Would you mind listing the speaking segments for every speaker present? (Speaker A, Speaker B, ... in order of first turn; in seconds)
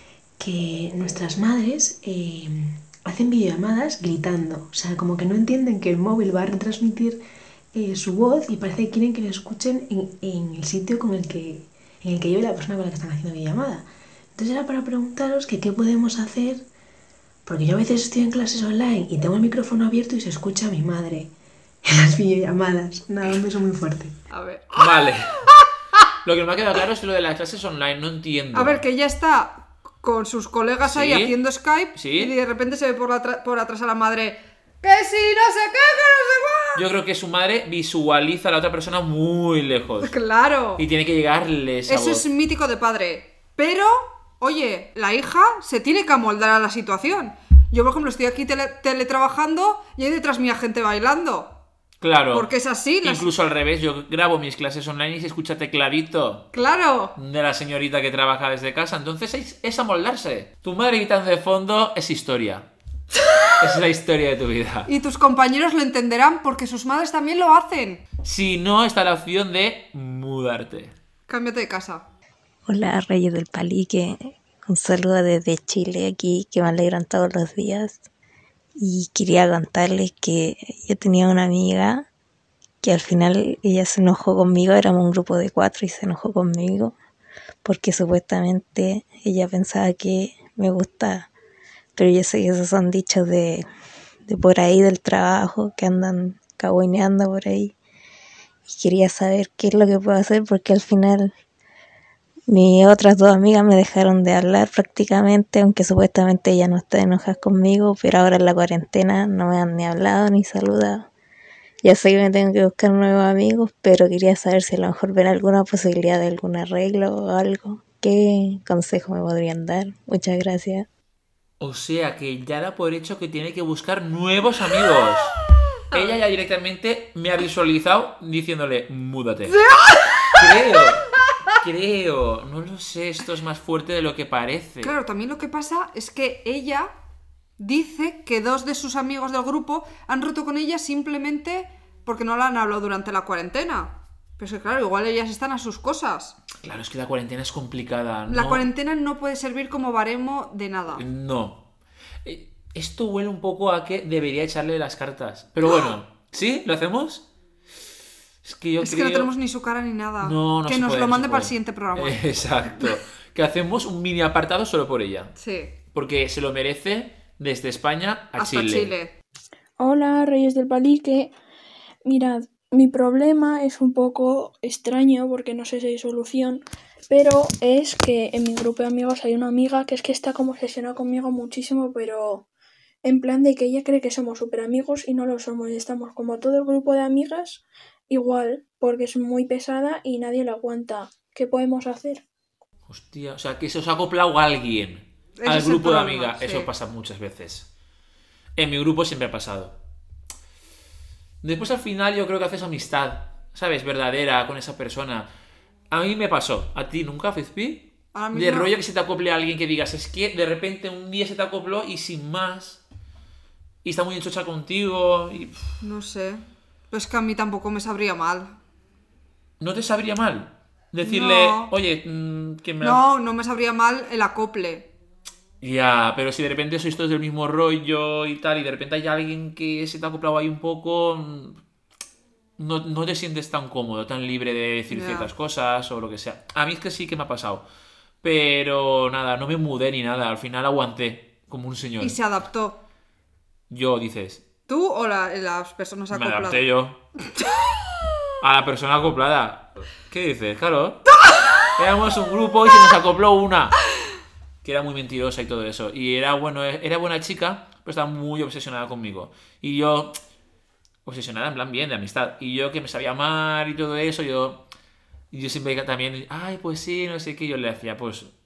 Speaker A: 0.4-7.2, 7.7-16.6, 17.5-21.3, 21.8-24.2
Speaker B: 24.3-25.7, 28.5-36.8, 40.0-40.8, 41.9-51.5, 52.3-53.3, 56.5-57.1, 64.9-68.0, 71.3-72.0, 129.6-130.4, 134.8-136.9, 137.6-146.3, 148.3-151.0, 158.8-162.2, 165.4-165.7, 168.4-169.1, 195.4-196.7, 208.1-208.7, 215.8-218.6, 221.0-221.7, 222.8-224.9, 234.9-235.3, 242.0-242.8, 244.7-246.6
Speaker C: 24.8-25.4, 26.2-28.8, 30.8-31.4, 31.9-32.3, 36.8-40.1, 40.8-42.2, 52.0-52.5, 53.0-56.5, 57.2-62.7, 63.6-64.9, 68.2-70.9, 121.6-125.4, 125.9-129.6, 130.3-134.9, 146.6-148.7, 151.0-151.6, 152.2-157.2, 158.4-159.3, 160.2-165.3, 165.9-168.9, 192.9-197.7, 198.6-199.8, 201.4-205.3, 205.9-212.8, 213.8-215.7, 219.6-223.0, 225.6-231.6, 232.6-237.6, 238.2-242.2, 243.7-244.4, 246.1-247.0, 248.4-251.1, 251.8-253.8, 254.6-260.2, 261.1-264.6, 265.3-268.3
Speaker D: 72.7-78.0, 78.8-82.1, 82.8-87.0, 87.7-91.3, 92.0-93.7, 94.3-97.7, 98.7-101.3, 102.5-111.1, 111.8-120.9
Speaker E: 169.8-171.3, 172.1-182.5, 183.0-192.2